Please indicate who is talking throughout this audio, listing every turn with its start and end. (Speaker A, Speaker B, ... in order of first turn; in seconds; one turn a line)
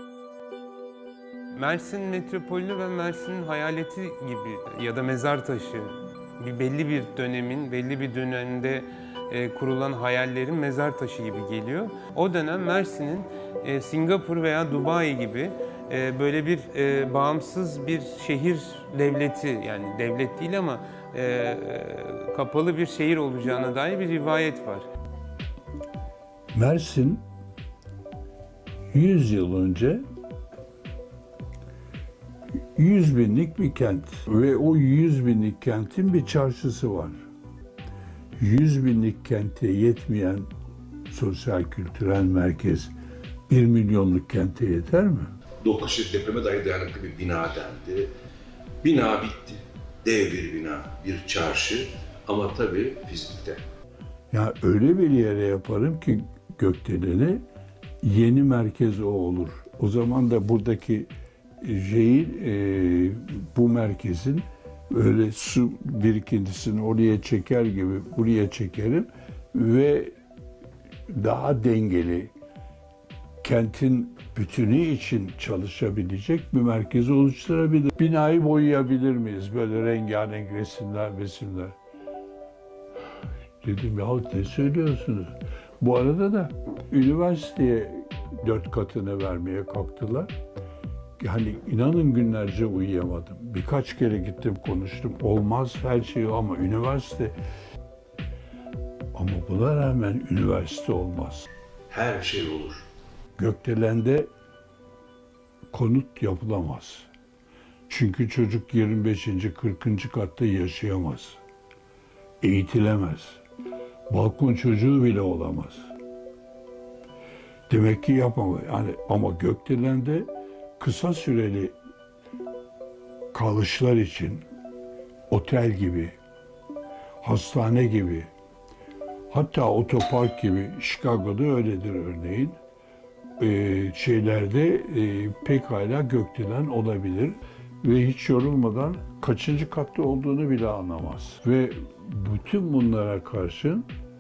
Speaker A: 1.5-24.9
Speaker B: 26.5-27.2
Speaker B: 28.9-30.0
Speaker B: 32.8-37.2
Speaker B: 38.4-40.5
Speaker B: 41.1-42.9
Speaker B: 43.5-45.3
Speaker C: 45.6-48.1
Speaker C: 48.8-53.6
Speaker B: 54.3-57.4
Speaker B: 58.0-61.1
Speaker B: 61.6-70.1
Speaker B: 71.1-72.3
Speaker B: 73.4-81.8
Speaker B: 83.6-90.3
Speaker B: 91.2-97.3
Speaker B: 99.1-101.5
Speaker C: 101.9-102.8
Speaker B: 103.4-104.3
Speaker B: 105.7-107.1
Speaker B: 107.9-111.4
Speaker B: 112.4-113.4
Speaker B: 114.1-115.9
Speaker B: 117.7-121.7
Speaker B: 123.3-124.4
Speaker B: 125.3-126.2
Speaker B: 127.2-128.3
Speaker B: 129.3-132.6
Speaker B: 133.4-143.9